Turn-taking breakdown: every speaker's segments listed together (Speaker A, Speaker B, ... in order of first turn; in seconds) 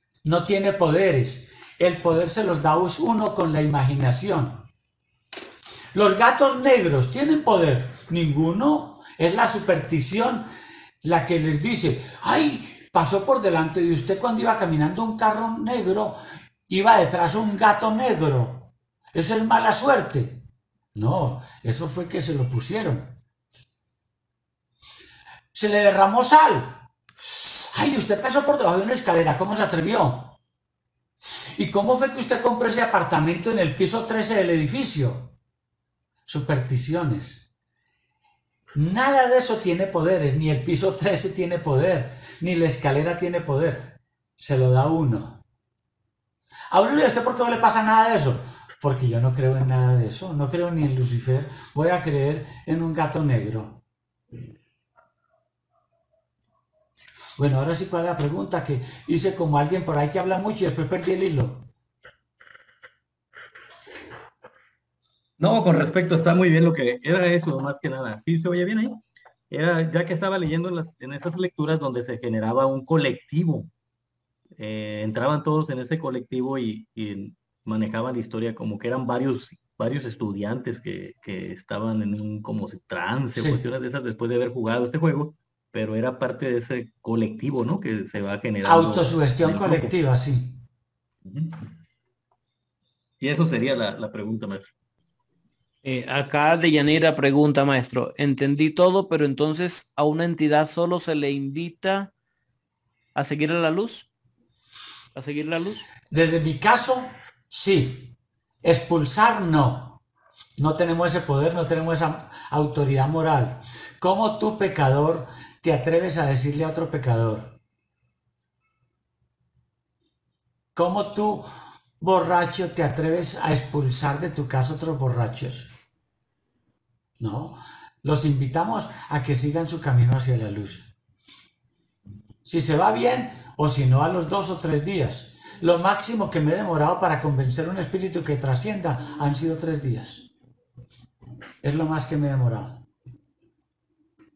Speaker A: 0.2-4.7, 5.9-10.5, 11.0-23.2, 25.5-30.4, 31.6-35.3, 36.3-37.5, 38.8-45.4, 46.7-53.8, 57.4-61.7, 88.6-90.6, 106.1-110.0, 110.6-117.6, 120.8-121.5, 122.0-125.7, 127.2-130.9, 132.4-140.3, 141.6-142.8
Speaker B: 65.4-73.7, 74.6-89.9, 91.2-91.7, 93.2-94.7
Speaker C: 95.8-102.1, 103.2-104.1, 105.2-105.9